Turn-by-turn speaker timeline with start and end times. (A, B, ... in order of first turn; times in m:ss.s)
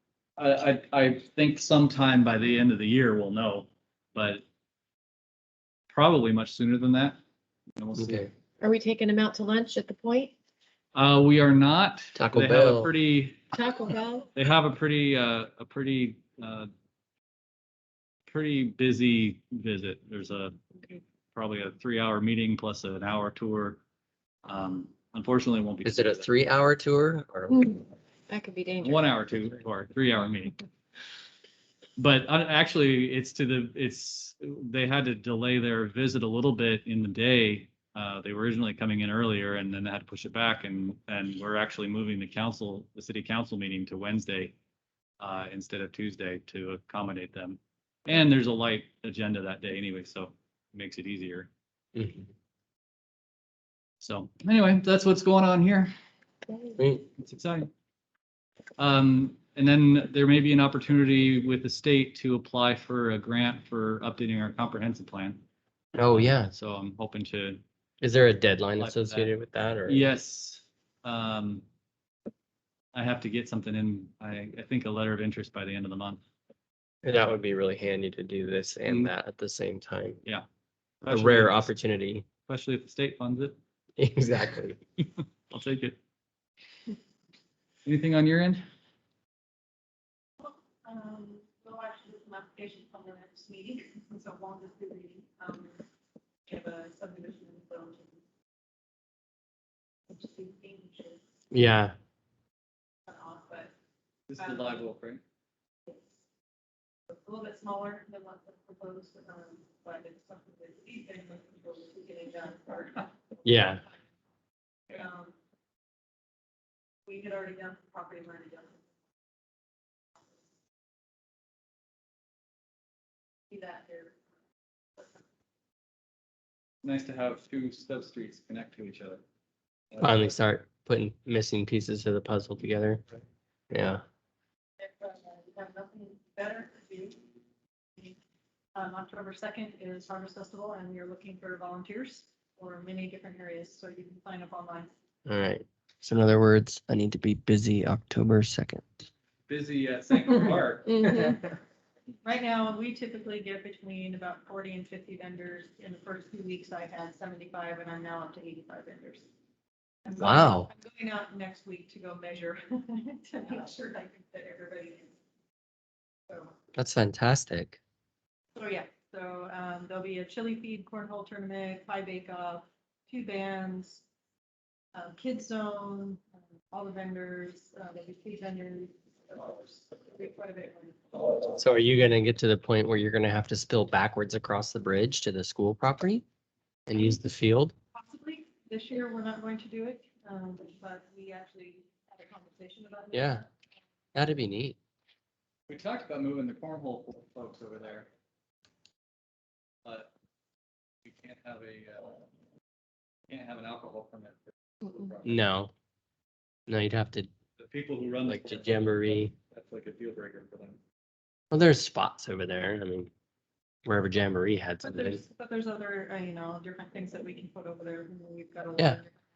0:00.4-0:04.4 A
0:05.9-0:07.2 A
0:07.8-0:08.3 A
0:08.6-0:10.3 B
0:10.9-0:13.5 A
0:12.3-0:12.9 C
0:13.5-0:14.3 B
0:14.3-0:16.7 A
0:18.3-0:20.6 A
0:21.3-0:23.8 A
0:24.4-0:26.3 A
0:25.8-0:27.5 C
0:27.5-0:29.0 B
0:28.8-0:30.6 A
0:32.0-0:44.5 A
0:45.2-0:51.5 A
0:51.9-0:52.2 C
0:54.0-0:55.9 A
0:56.5-0:56.8 B
0:56.8-0:57.0 C
0:57.2-0:57.7 A
0:58.8-1:05.4 A
1:05.9-1:06.5 C
1:06.1-1:07.6 A
1:08.0-1:10.0 C
1:08.8-1:09.3 A
1:09.9-1:11.6 A
1:12.9-1:16.2 A
1:17.0-1:20.2 C
1:18.8-1:19.1 A
1:21.0-1:21.7 A
1:21.1-1:22.2 C
1:22.5-1:23.6 A
1:24.0-1:24.8 C
1:25.5-1:26.0 A
1:27.8-1:28.6 A
1:30.4-1:35.8 D
1:36.5-1:38.2 D
1:40.1-1:41.2 D
1:41.5-1:41.9 C
1:43.1-1:43.7 D
1:44.3-1:45.2 A
1:44.4-1:44.9 D
1:47.1-1:54.0 D
1:54.9-1:55.3 D
1:57.0-1:58.8 D
2:03.5-2:04.2 D
2:05.0-2:05.2 D
2:06.8-2:09.2 A
2:09.9-2:10.3 A
2:10.0-2:13.0 C
2:13.7-2:14.0 C
2:14.8-2:17.2 D
2:18.7-2:24.9 D
2:25.2-2:28.8 C
2:29.5-2:31.1 A
2:31.0-2:31.3 B
2:32.2-2:39.3 D
2:40.0-2:45.1 D
2:40.2-2:40.7 C
2:46.3-2:46.5 D
2:46.7-2:47.8 C
2:48.5-2:54.0 D
2:54.9-3:01.2 D
3:01.6-3:06.2 C
3:06.9-3:07.7 C
3:07.9-3:13.5 D
3:14.1-3:14.8 C
3:15.7-3:18.1 A
3:19.8-3:20.1 A
3:21.0-3:22.2 A
3:23.3-3:25.4 A
3:25.2-3:25.7 C
3:26.7-3:27.3 C
3:27.6-3:30.8 A
3:28.3-3:29.3 C
3:31.5-3:33.1 C
3:33.8-3:35.2 C
3:34.8-3:39.2 D